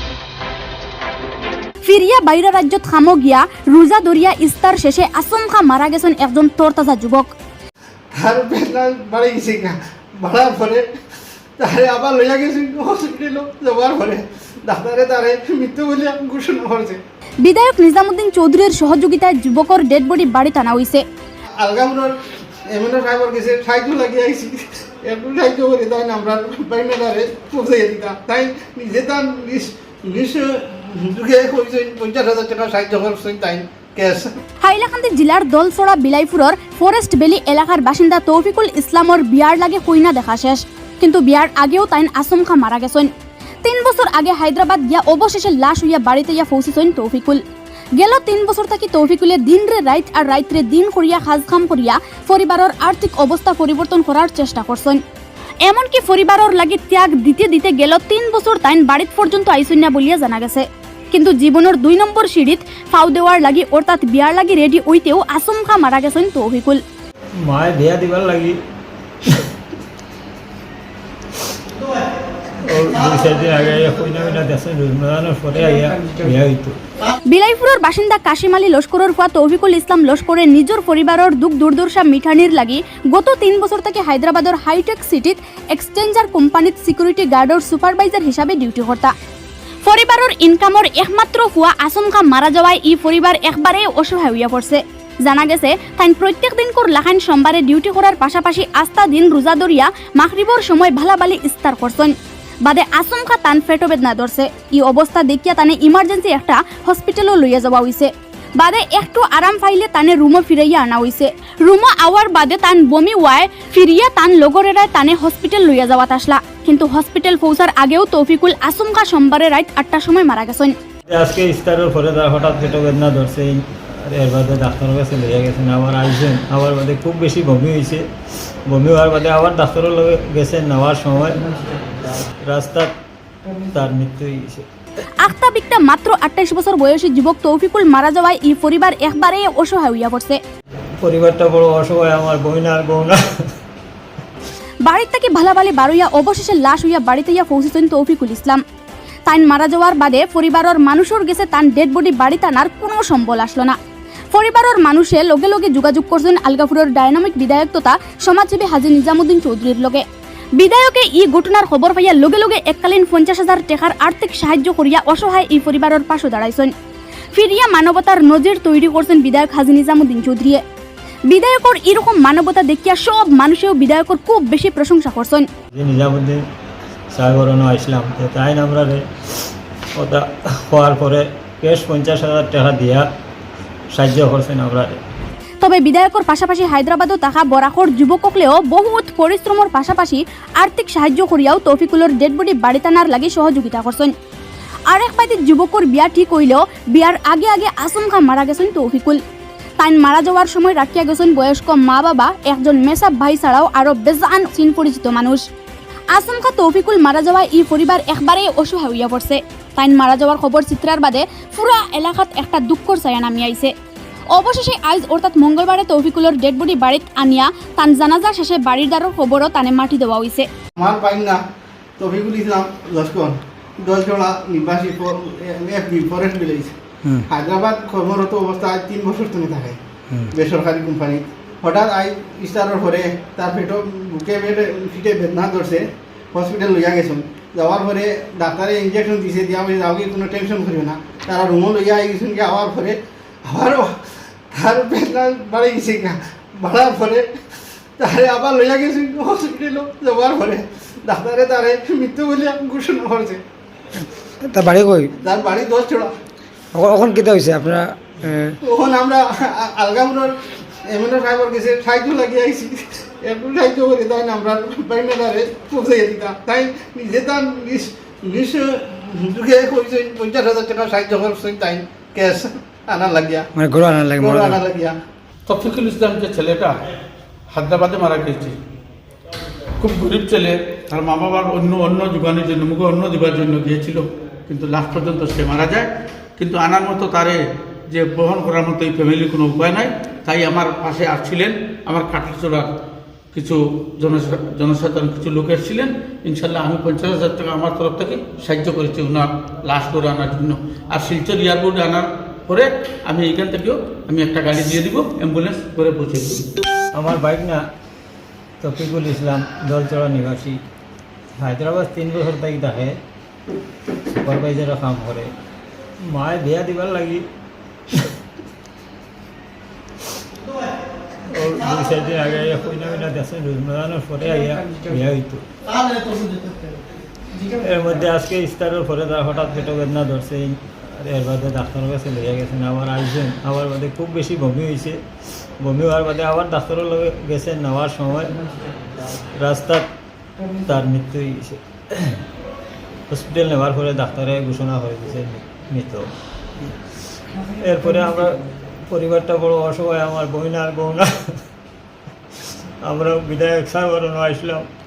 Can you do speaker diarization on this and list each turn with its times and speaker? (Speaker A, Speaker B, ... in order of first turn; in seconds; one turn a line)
Speaker A: 1.8-7.3
Speaker B: 8.2-10.8
Speaker B: 11.6-17.0
Speaker A: 17.4-21.0
Speaker B: 21.6-22.1
Speaker B: 22.7-34.3
Speaker A: 34.6-43.1
Speaker A: 43.6-47.4
Speaker A: 48.0-55.0
Speaker A: 55.6-66.8
Speaker C: 67.4-68.6
Speaker C: 72.6-76.8
Speaker A: 77.3-89.1
Speaker A: 89.8-120.7
Speaker C: 121.1-128.0
Speaker C: 128.7-131.4
Speaker C: 132.4-132.9
Speaker C: 133.7-134.7
Speaker A: 135.2-140.4
Speaker C: 141.0-143.2
Speaker A: 144.8-148.6
Speaker A: 149.3-153.8
Speaker A: 154.3-160.0
Speaker A: 160.6-166.7
Speaker A: 167.3-170.6
Speaker A: 171.3-175.4
Speaker C: 175.7-176.4
Speaker C: 177.1-179.0
Speaker C: 179.9-183.1
Speaker C: 183.9-185.0
Speaker A: 185.6-194.1
Speaker A: 194.9-199.2
Speaker A: 199.8-205.4
Speaker A: 206.1-213.7
Speaker A: 214.3-220.5
Speaker B: 220.8-221.4
Speaker B: 222.0-226.7
Speaker B: 227.3-229.8
Speaker B: 230.3-243.9
Speaker B: 244.5-247.3
Speaker B: 248.0-253.4
Speaker D: 254.0-255.2
Speaker B: 255.2-256.1
Speaker D: 256.7-258.6
Speaker B: 258.6-273.5
Speaker D: 273.5-274.6
Speaker B: 274.2-275.0
Speaker E: 275.5-276.8
Speaker E: 277.5-278.6
Speaker E: 279.8-285.9
Speaker E: 286.4-292.7
Speaker E: 293.3-306.5
Speaker C: 306.9-307.6
Speaker C: 308.6-310.6
Speaker C: 311.4-313.0
Speaker C: 314.1-315.3
Speaker C: 316.1-317.2
Speaker C: 321.3-325.4
Speaker C: 327.5-335.0
Speaker C: 335.6-338.3
Speaker C: 339.3-339.9
Speaker C: 340.6-342.2
Speaker C: 343.1-346.1
Speaker C: 347.6-351.3
Speaker C: 352.4-354.6